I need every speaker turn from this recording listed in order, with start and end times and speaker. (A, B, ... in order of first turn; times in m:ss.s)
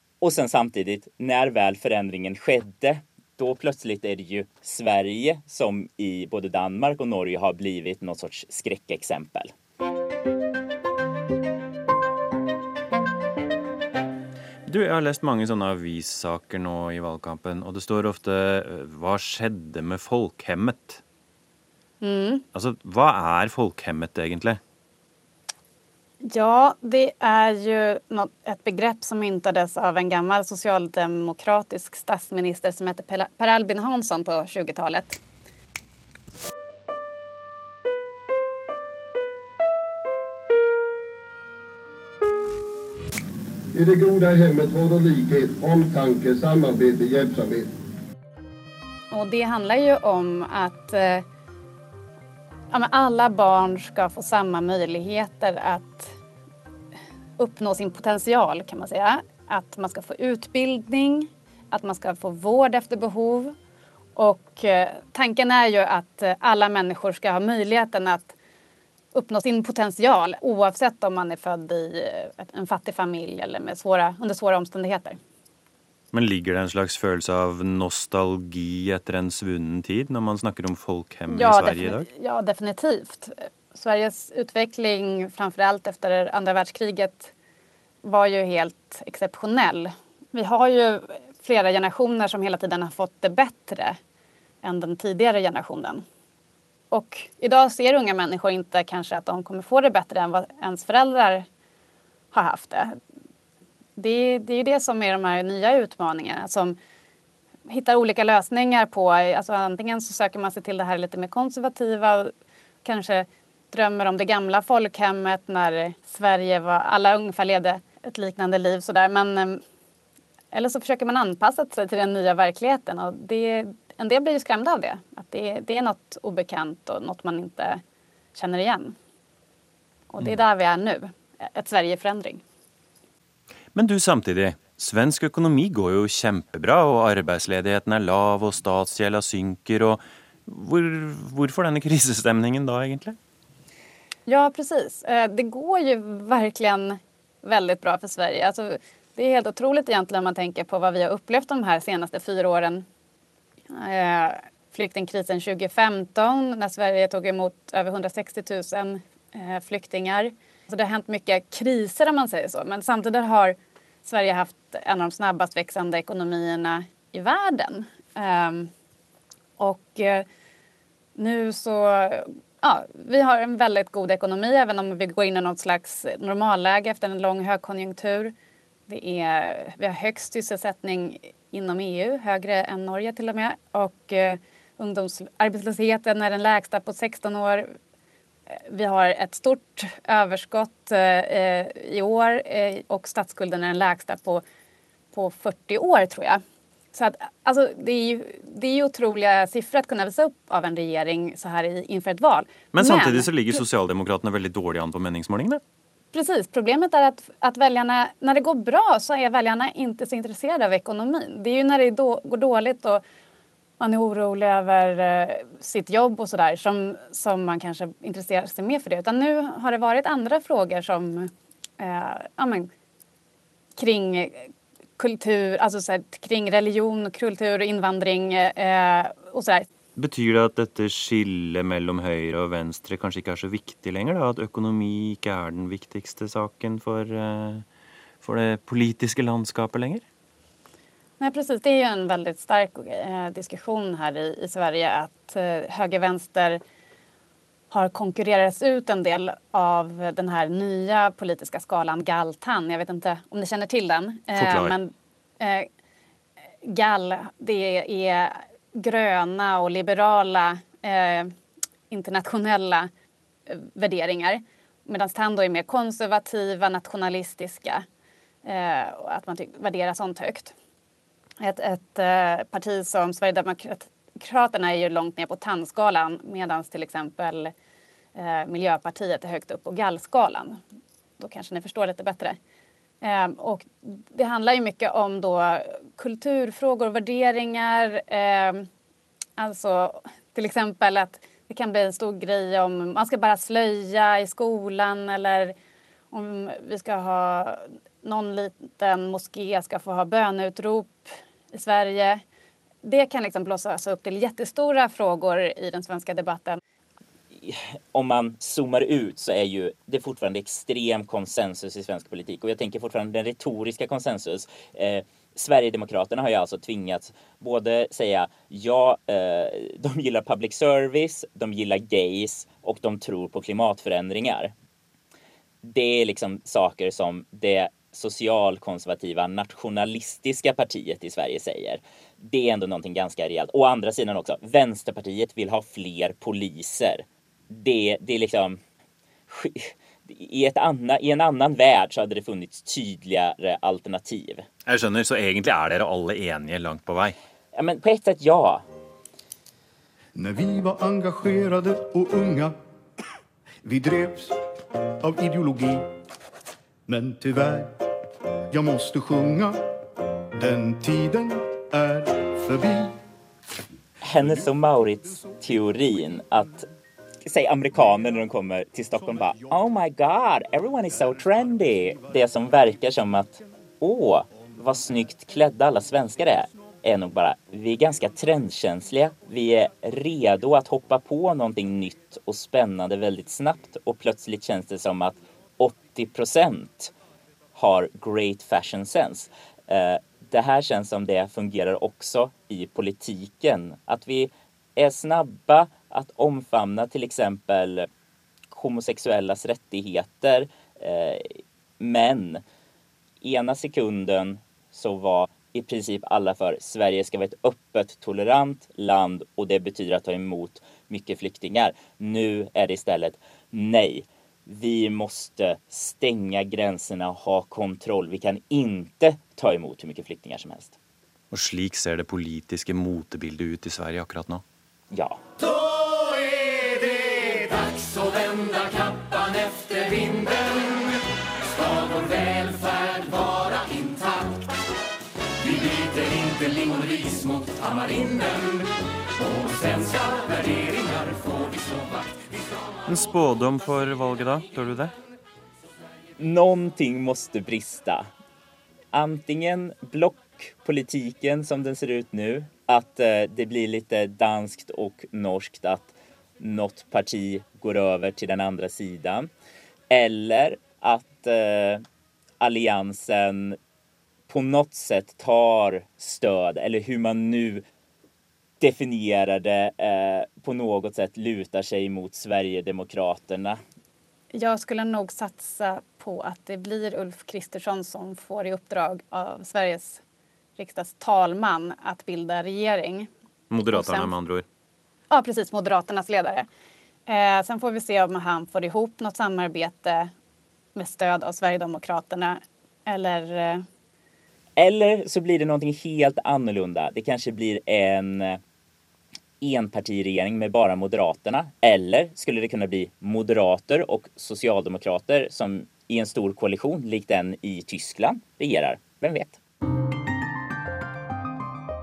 0:00.2-0:09.5 A
0:14.6-0:21.0 B
0:22.0-0:22.4 C
0:22.5-0:24.6 B
0:26.2-0:35.2 C
0:43.7-0:47.7 D
0:49.1-0:51.2 C
0:52.7-0:56.1 C
0:57.4-1:03.6 C
1:04.2-1:08.3 C
1:09.1-1:15.2 C
1:16.1-1:22.1 B
1:21.3-1:27.3 C
1:28.0-1:34.0 C
1:34.6-1:36.0 C
1:36.9-1:41.4 C
1:42.3-1:43.0 C
1:44.0-1:46.8 C
1:47.7-1:52.3 C
1:52.8-1:59.6 C
2:00.5-2:07.8 C
2:08.3-2:09.0 C
2:10.1-2:12.4 C
2:13.7-2:23.2 B
2:24.3-2:32.8 C
2:33.7-2:48.7 C
2:49.6-2:50.2 C
2:51.2-2:58.3 C
2:58.9-3:07.7 C
3:08.6-3:14.4 C
3:15.1-3:16.4 C
3:16.9-3:23.6 C
3:22.7-3:25.6 B
3:26.1-3:33.0 C
3:33.8-3:42.7 C
3:43.8-3:49.7 C
3:50.0-3:57.6 B
3:58.2-4:00.0 B
4:01.2-4:06.6 C
4:07.7-4:15.7 C
4:14.3-4:14.8 B
4:16.6-4:21.3 C
4:21.9-4:22.9 C
4:23.5-4:27.8 C
4:28.4-4:30.5 C
4:31.4-4:37.5 C
4:38.1-4:40.6 C
4:41.2-4:42.4 C
4:43.0-4:48.6 C
4:49.4-4:55.5 C
4:56.1-5:02.2 C
5:02.8-5:06.6 C
5:07.3-5:24.5 A
5:25.6-5:38.6 A
5:39.3-5:44.4 A
5:44.6-5:47.2 B
5:47.5-5:48.6 A
5:50.1-5:52.6 E
5:53.6-5:54.4 E
5:55.0-5:55.9 E
5:56.9-5:57.7 E
5:58.5-5:59.6 E
6:00.4-6:03.0 E
6:04.0-6:06.6 A
6:04.2-6:05.8 E
6:07.3-6:26.9 A
6:27.6-6:37.9 A
6:38.5-6:41.3 A
6:41.8-6:42.4 A
6:43.2-7:00.8 A
7:01.3-7:04.4 B
7:04.9-7:05.2 A
7:22.9-7:24.9 B
7:26.2-7:28.1 A
7:28.9-7:39.3 A
7:39.9-7:41.8 A
7:42.4-7:43.6 A
7:44.3-7:47.6 A
7:48.6-7:53.6 A
7:54.3-8:00.0 C
8:00.6-8:03.1 C
8:03.5-8:04.4 B
8:03.7-8:04.1 C
8:05.1-8:06.5 C
8:07.1-8:10.1 C
8:10.7-8:13.6 C
8:14.6-8:18.4 A
8:19.4-8:29.4 A